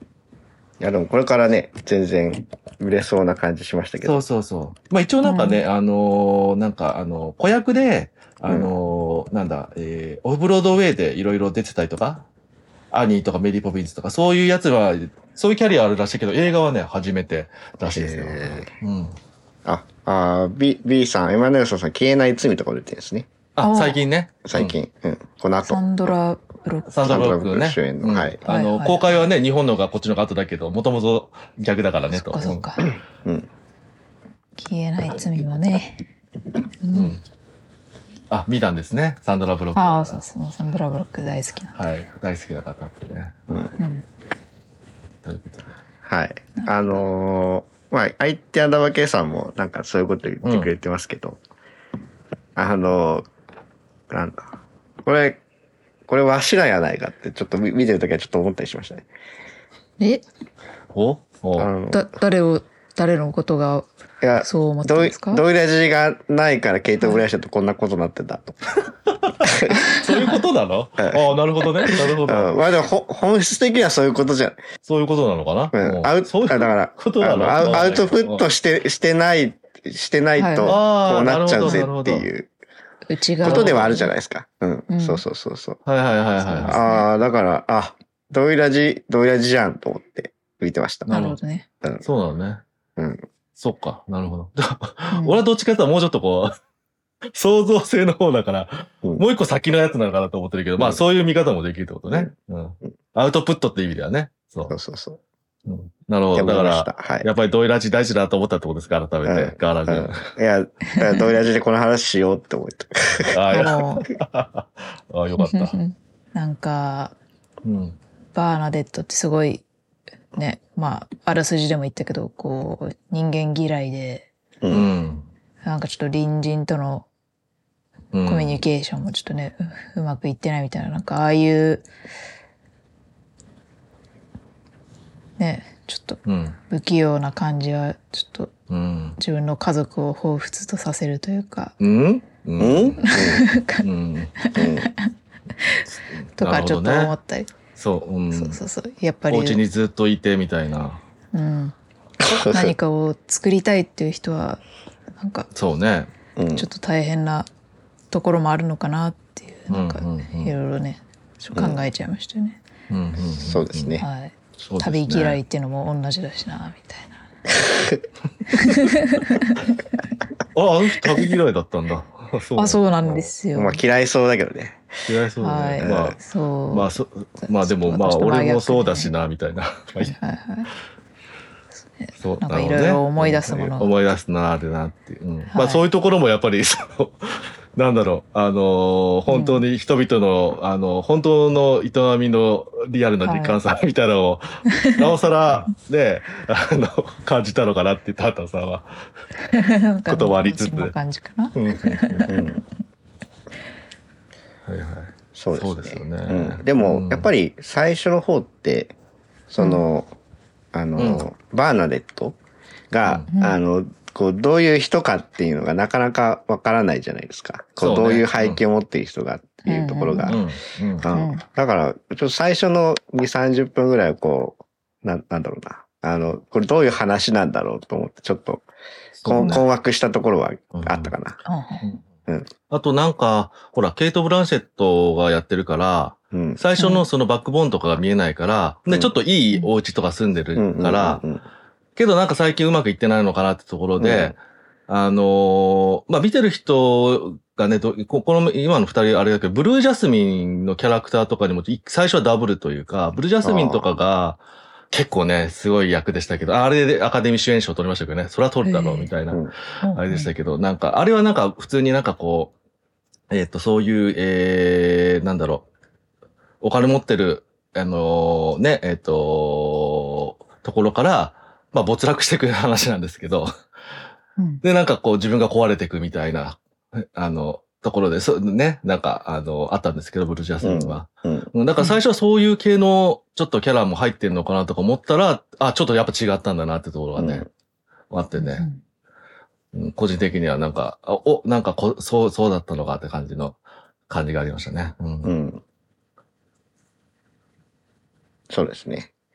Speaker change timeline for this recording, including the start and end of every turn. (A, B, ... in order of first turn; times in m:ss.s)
0:00.8-0:04.2 A
0:04.0-0:12.2 B
0:05.2-0:05.6 C
0:12.9-0:19.2 B
0:17.8-0:18.7 A
0:19.6-0:23.3 A
0:23.6-0:24.8 B
0:23.6-0:24.0 C
0:24.4-0:25.8 A
0:25.6-0:27.2 C
0:26.9-0:32.7 B
0:27.0-0:28.4 A
0:28.5-0:29.0 C
0:32.1-0:32.9 C
0:34.6-0:36.0 C
0:36.8-0:37.2 C
0:36.9-0:37.2 B
0:38.3-0:40.2 B
0:39.8-0:41.8 C
0:41.7-0:43.8 B
0:43.8-0:44.0 C
0:45.2-0:45.6 B
0:46.0-0:51.4 A
0:50.4-0:50.7 B
0:52.6-0:53.2 A
0:54.1-0:54.4 A
0:55.0-0:55.4 A
0:56.1-0:59.1 A
1:00.0-1:00.2 C
1:00.9-1:01.7 B
1:01.6-1:02.1 A
1:01.9-1:05.4 C
1:04.2-1:08.6 A
1:09.1-1:12.5 B
1:09.4-1:09.8 A
1:09.7-1:10.4 C
1:11.8-1:14.6 A
1:14.9-1:18.4 B
1:15.7-1:22.5 A
1:20.4-1:20.8 C
1:20.6-1:22.3 B
1:21.6-1:21.9 C
1:23.1-1:24.1 C
1:23.4-1:25.8 A
1:23.4-1:23.9 B
1:24.9-1:25.2 C
1:25.8-1:26.8 B
1:26.5-1:31.1 A
1:26.6-1:27.0 C
1:31.1-1:31.4 B
1:31.1-1:31.7 C
1:32.0-1:32.6 B
1:33.0-1:33.2 A
1:33.6-1:36.5 B
1:35.1-1:35.4 C
1:37.3-1:44.7 B
1:44.7-1:45.2 A
1:45.7-1:50.3 B
1:46.4-1:47.3 A
1:49.2-1:53.4 A
1:53.2-1:55.8 B
1:53.5-1:54.1 C
1:55.4-1:57.2 C
1:57.6-1:58.0 B
1:58.3-1:59.6 C
2:00.4-2:04.3 C
2:04.6-2:04.9 A
2:04.7-2:05.3 B
2:05.6-2:07.1 C
2:08.1-2:08.6 B
2:08.3-2:11.9 C
2:15.4-2:18.5 C
2:16.3-2:16.6 B
2:18.7-2:19.2 B
2:19.2-2:21.7 C
2:21.8-2:23.3 B
2:22.6-2:23.5 A
2:23.0-2:23.9 C
2:23.8-2:24.3 B
2:24.4-2:25.1 C
2:24.6-2:24.9 A
2:26.1-2:27.1 B
2:26.4-2:27.5 C
2:27.8-2:28.6 B
2:28.3-2:29.6 C
2:29.3-2:31.0 B
2:31.3-2:31.8 C
2:32.2-2:32.8 A
2:32.5-2:34.6 C
2:35.2-2:35.5 C
2:35.5-2:36.1 B
2:36.4-2:36.7 A
2:36.6-2:37.5 C
2:38.1-2:42.6 C
2:39.7-2:40.5 B
2:41.6-2:41.8 A
2:42.9-2:44.0 B
2:43.4-2:44.1 A
2:44.0-2:47.2 C
2:44.6-2:45.4 B
2:47.7-2:48.0 A
2:48.5-2:49.7 C
2:50.5-2:53.2 B
2:52.6-2:53.8 C
2:53.6-2:54.9 A
2:55.1-2:56.2 B
2:55.4-2:56.9 C
2:55.8-2:56.2 A
2:56.7-3:00.2 B
2:57.6-2:59.1 C
3:00.0-3:00.7 C
3:02.0-3:04.0 C
3:02.2-3:19.1 B
3:05.5-3:05.8 C
3:09.3-3:09.6 C
3:13.2-3:13.6 C
3:19.5-3:22.4 C
3:20.1-3:21.0 B
3:21.5-3:22.4 B
3:22.3-3:22.6 A
3:24.7-3:27.3 B
3:25.4-3:28.9 A
3:29.5-3:30.1 A
3:29.6-3:29.8 C
3:30.7-3:32.4 A
3:31.0-3:31.2 B
3:32.9-3:40.4 A
3:33.3-3:33.6 C
3:37.8-3:38.6 B
3:39.7-3:40.4 C
3:40.3-3:41.1 B
3:41.0-3:48.7 A
3:41.1-3:41.4 C
3:49.2-3:49.6 B
3:49.2-3:51.4 A
3:50.7-3:51.1 B
3:51.5-3:51.8 C
3:52.7-4:01.2 B
3:56.3-3:56.6 A
3:56.8-3:57.1 C
4:00.6-4:01.4 A
4:02.0-4:14.4 B
4:04.0-4:04.3 A
4:13.4-4:13.8 A
4:14.9-4:22.5 B
4:18.6-4:19.1 C
4:19.8-4:20.3 C
4:23.3-4:25.7 B
4:26.6-4:33.5 B
4:34.4-4:34.6 C
4:34.6-4:47.5 B
4:40.6-4:41.5 A
4:47.2-4:47.5 A
4:48.1-4:48.7 B
4:48.4-4:48.8 C
4:49.7-4:53.6 B
4:54.1-4:55.3 B
4:55.2-4:55.6 A
4:58.5-4:59.1 A